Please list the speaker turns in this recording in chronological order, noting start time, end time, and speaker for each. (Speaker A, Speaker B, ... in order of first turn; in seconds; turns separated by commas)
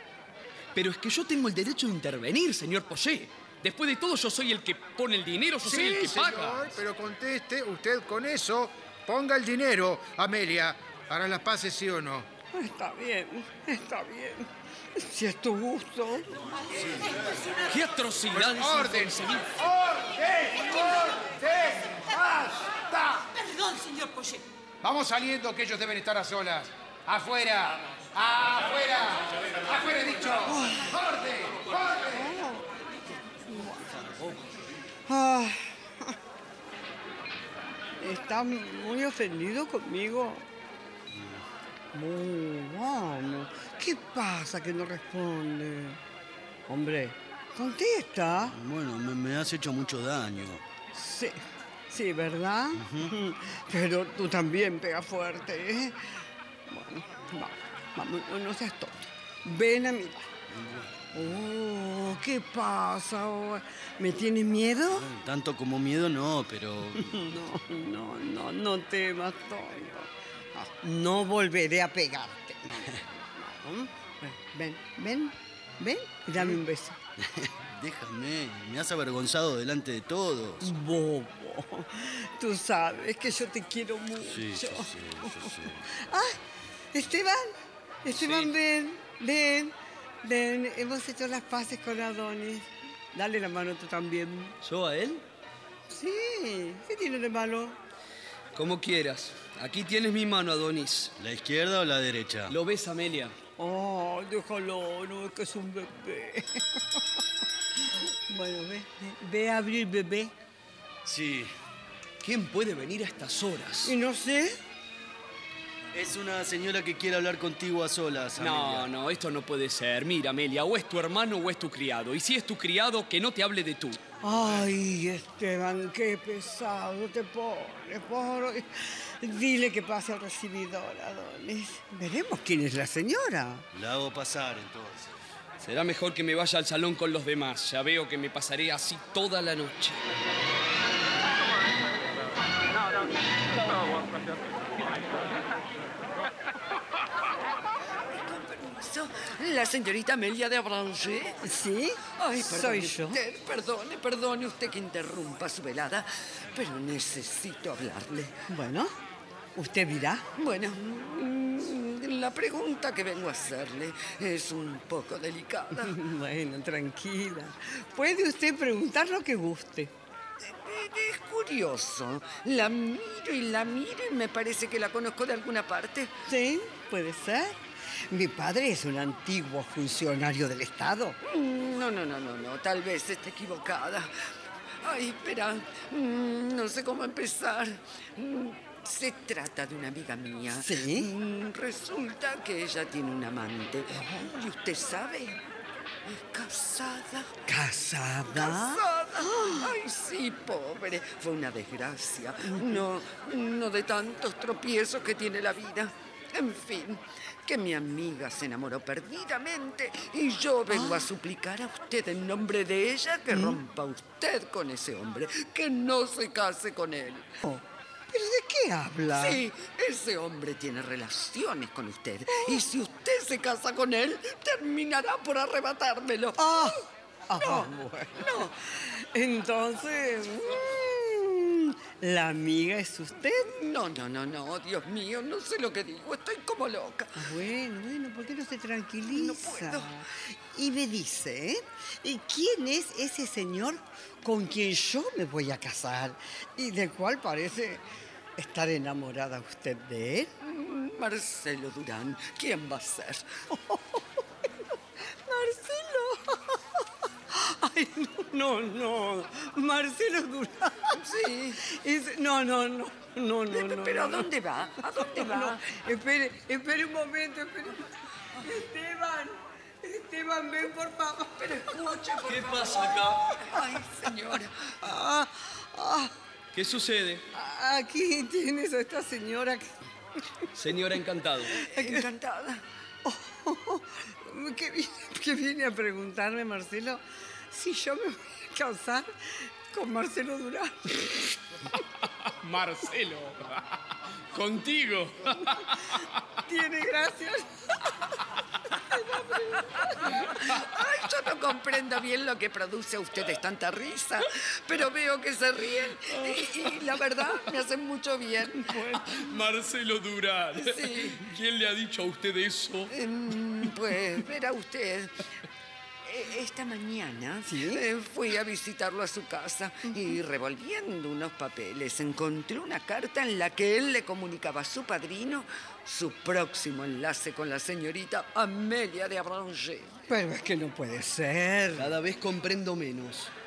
Speaker A: 0.7-6.8, Speaker B: 5.6-12.3, Speaker C: 12.5-16.3, Speaker D: 16.8-17.6, Speaker A: 17.7-19.5, Speaker B: 18.3-23.3, Speaker D: 23.4-24.4, Speaker B: 24.8-32.3, Speaker C: 30.5-30.9, Speaker C: 32.1-32.7, Speaker C: 33.5-33.9, Speaker E: 34.1-34.4, Speaker C: 35.1-36.1, Speaker C: 38.0-40.5, Speaker E: 41.1-41.4, Speaker C: 41.9-46.0, Speaker C: 46.7-48.5, Speaker E: 48.5-50.6, Speaker C: 50.9-56.0, Speaker E: 52.8-53.1, Speaker C: 56.7-60.3, Speaker E: 60.5-61.4, Speaker C: 61.1-65.0, Speaker E: 64.9-67.2, Speaker C: 67.0-77.0, Speaker E: 77.2-80.7, Speaker C: 80.6-86.4, Speaker E: 84.2-85.8, Speaker C: 86.9-94.5, Speaker A: 88.1-88.5, Speaker A: 94.6-95.2, Speaker C: 95.9-97.8, Speaker A: 98.5-101.1, Speaker E: 101.2-102.5, Speaker A: 102.5-103.3, Speaker C: 103.6-107.0, Speaker C: 108.3-110.3, Speaker E: 111.0-111.5, Speaker A: 112.2-114.0, Speaker C: 113.8-114.6, Speaker E: 115.9-118.9, Speaker A: 118.4-124.0, Speaker C: 124.2-133.6, Speaker E: 133.7-135.1, Speaker A: 135.6-140.0, Speaker F: 148.0-151.4, Speaker C: 151.4-153.2, Speaker F: 152.1-158.4, Speaker C: 158.5-158.9, Speaker C: 159.6-160.2, Speaker F: 160.3-166.0, Speaker C: 165.9-169.9, Speaker F: 170.4-176.1, Speaker C: 176.3-181.2, Speaker F: 181.2-184.1, Speaker F: 184.8-195.4, Speaker C: 190.6-191.1, Speaker C: 193.9-194.2, Speaker F: 196.1-197.3, Speaker C: 197.5-199.7, Speaker F: 198.3-217.3, Speaker C: 202.5-202.8, Speaker C: 210.7-211.1, Speaker C: 213.3-213.6, Speaker C: 217.4-219.4, Speaker F: 219.1-226.8, Speaker C: 222.3-222.6, Speaker C: 226.4-233.5, Speaker F: 227.4-228.5, Speaker F: 233.4-237.3, Speaker C: 237.2-240.0, Speaker F: 239.1-240.0, Speaker C: 240.5-247.8, Speaker C: 248.4-250.3, Speaker F: 250.4-253.3, Speaker C: 253.5-254.2, Speaker C: 255.2-256.6, Speaker C: 257.3-260.9, Speaker F: 260.9-261.6, Speaker C: 261.6-264.3, Speaker F: 263.5-265.6, Speaker C: 264.9-271.8, Speaker F: 271.4-274.7, Speaker A: 272.3-273.3, Speaker C: 274.8-276.1, Speaker A: 276.5-277.2, Speaker C: 277.3-279.7, Speaker A: 280.5-281.5, Speaker F: 281.6-282.6, Speaker C: 281.7-282.1, Speaker C: 283.0-289.1, Speaker C: 289.7-291.4, Speaker A: 292.4-293.6, Speaker A: 294.3-296.1, Speaker C: 296.5-297.9, Speaker C: 298.9-300.4, Speaker F: 300.4-308.7, Speaker C: 308.6-309.3, Speaker A: 309.0-312.9, Speaker F: 310.6-311.2, Speaker F: 312.9-315.1, Speaker F: 316.1-329.9, Speaker C: 317.4-317.8, Speaker C: 319.9-320.2, Speaker C: 330.1-331.9, Speaker A: 331.7-333.3